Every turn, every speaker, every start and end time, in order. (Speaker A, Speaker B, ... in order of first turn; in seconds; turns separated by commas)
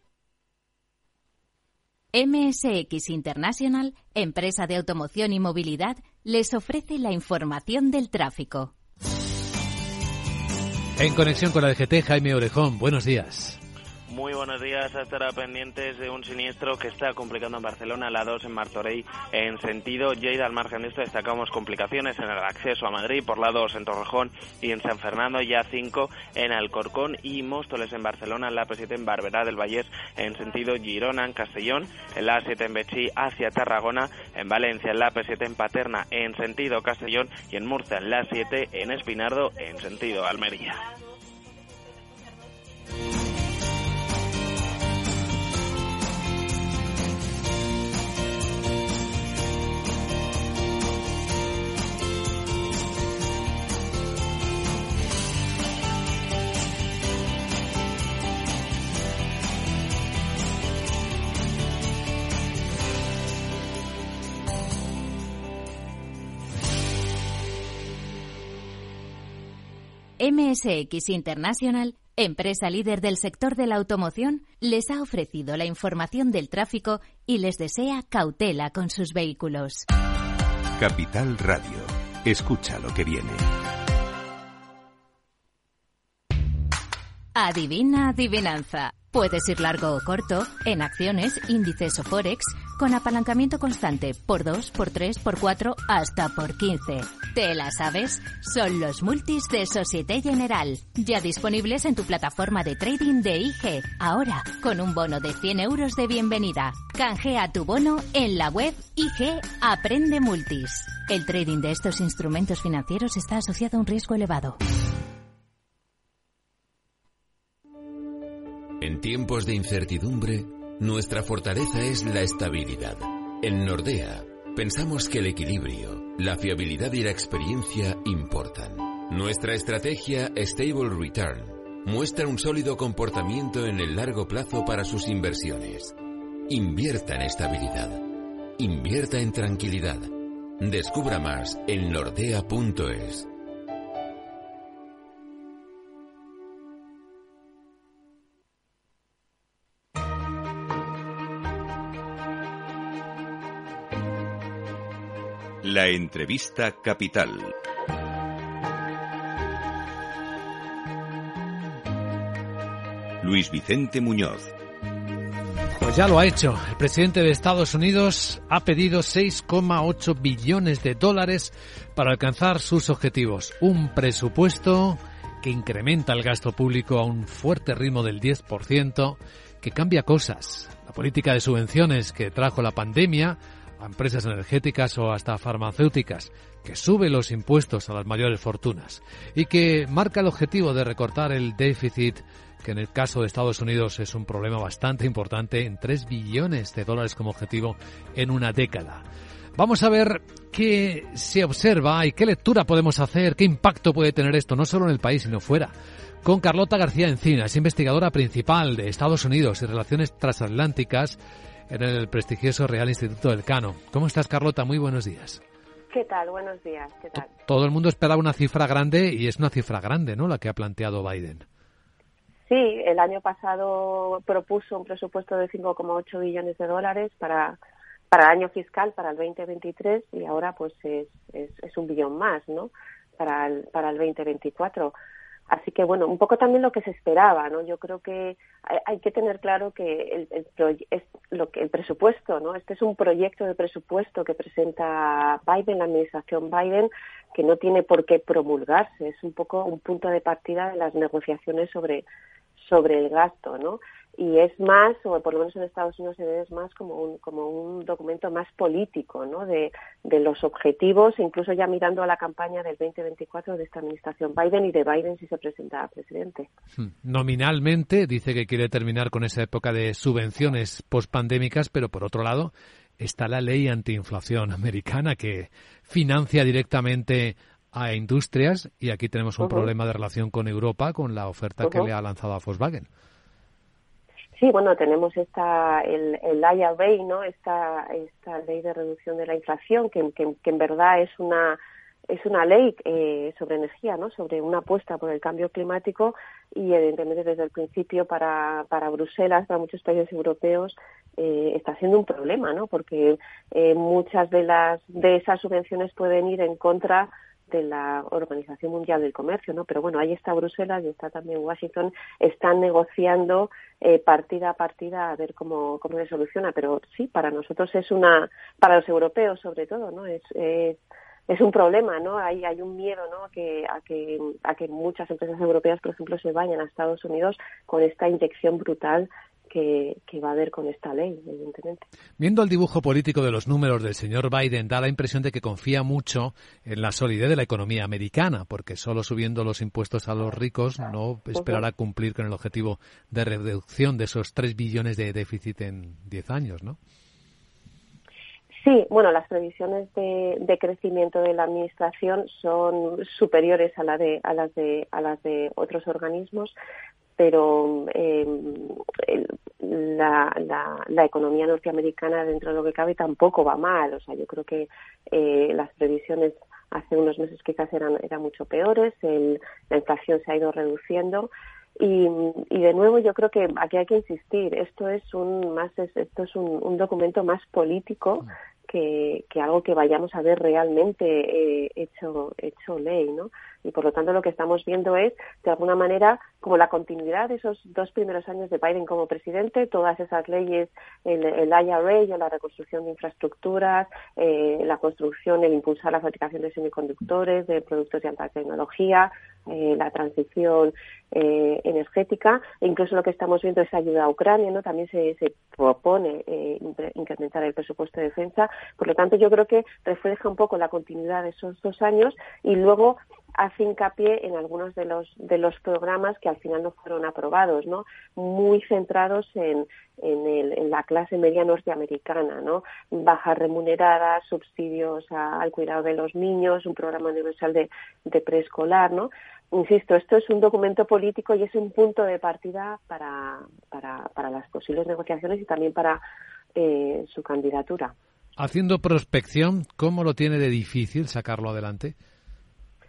Speaker A: 2.1-8.7, Speaker B: 11.0-13.6, Speaker C: 14.1-40.8, Speaker A: 70.2-79.9, Speaker D: 80.8-83.4, Speaker A: 87.3-114.6, Speaker E: 118.8-135.9, Speaker E: 136.5-143.3, Speaker D: 155.6-157.5, Speaker D: 163.2-164.5, Speaker B: 165.8-199.0, Speaker B: 199.6-205.7, Speaker B: 206.2-211.2, Speaker B: 211.7-215.4, Speaker F: 215.9-217.3, Speaker B: 217.3-221.4, Speaker F: 222.5-227.6, Speaker F: 228.1-234.9, Speaker F: 235.5-252.1, Speaker F: 252.6-266.5, Speaker B: 266.8-282.9, Speaker F: 279.4-279.7, Speaker F: 281.6-281.9, Speaker F: 284.4-331.8, Speaker B: 332.2-346.8, Speaker F: 341.3-341.6, Speaker F: 348.6-356.5, Speaker F: 357.2-436.0, Speaker F: 436.5-437.9, Speaker B: 438.4-441.9